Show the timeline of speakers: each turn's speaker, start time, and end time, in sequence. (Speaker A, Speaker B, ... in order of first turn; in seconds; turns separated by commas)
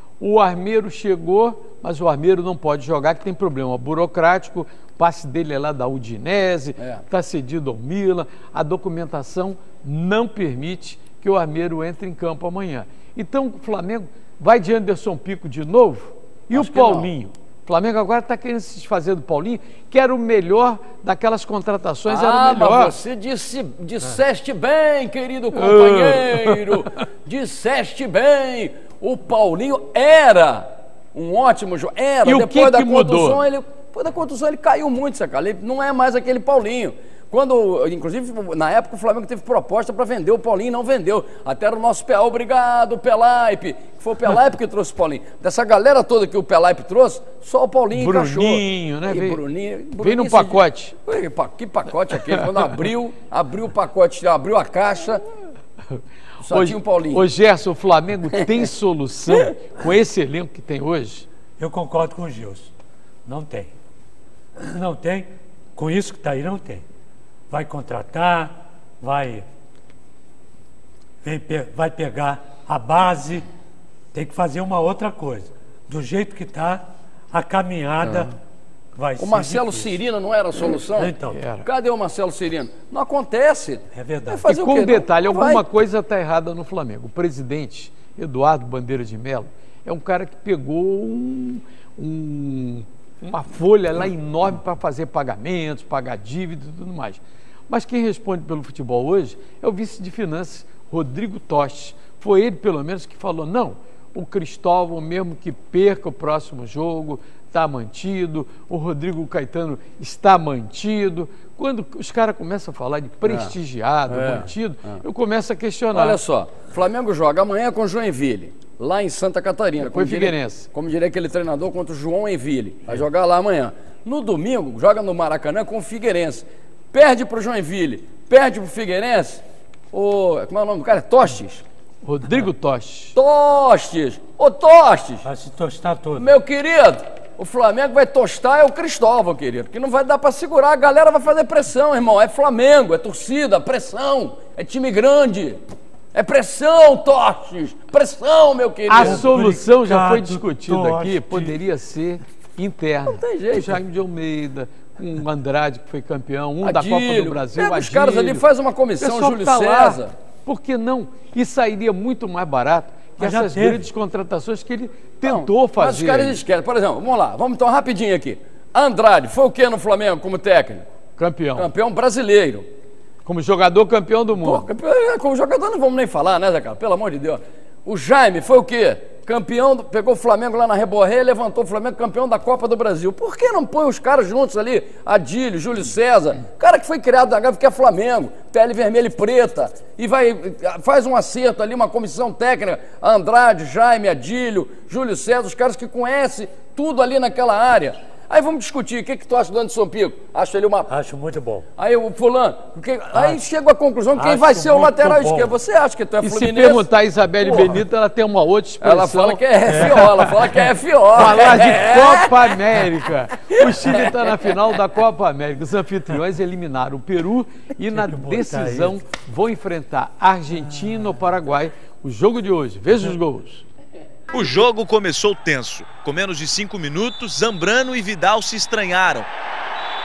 Speaker A: 0.2-22.9, Speaker B: 16.5-17.1, Speaker B: 22.1-55.2, Speaker A: 25.5-26.8, Speaker A: 32.2-33.4, Speaker A: 47.9-49.4, Speaker A: 50.0-51.0, Speaker A: 56.4-61.3, Speaker B: 56.4-57.3, Speaker C: 61.6-62.7, Speaker C: 63.3-63.7, Speaker C: 64.6-66.8, Speaker C: 67.5-69.5, Speaker C: 71.2-73.5, Speaker C: 74.1-78.3, Speaker B: 78.0-78.3, Speaker C: 79.0-80.0, Speaker B: 79.2-85.7, Speaker C: 81.0-81.4, Speaker A: 81.3-81.7, Speaker C: 83.9-84.5, Speaker A: 84.5-116.2, Speaker B: 113.2-113.5, Speaker B: 114.1-115.0, Speaker B: 115.9-131.7, Speaker A: 119.8-120.7, Speaker A: 132.0-133.2, Speaker B: 133.1-135.3, Speaker C: 135.2-136.3, Speaker B: 136.2-145.6, Speaker B: 146.1-149.2, Speaker A: 148.9-158.5, Speaker C: 149.0-151.6, Speaker B: 153.1-153.8, Speaker B: 156.6-160.1, Speaker A: 159.0-166.4, Speaker C: 163.2-163.9, Speaker B: 165.2-170.9, Speaker A: 171.2-171.7, Speaker B: 171.6-172.7, Speaker A: 173.2-174.7, Speaker B: 174.4-200.9, Speaker C: 200.9-201.7, Speaker B: 201.8-206.9, Speaker C: 203.1-203.4, Speaker C: 204.2-205.5, Speaker A: 206.2-210.3, Speaker B: 207.4-207.8, Speaker B: 208.8-212.8, Speaker C: 209.7-210.1, Speaker A: 211.1-223.7, Speaker B: 213.8-214.5, Speaker C: 217.9-219.0, Speaker C: 220.8-221.0, Speaker D: 224.3-229.3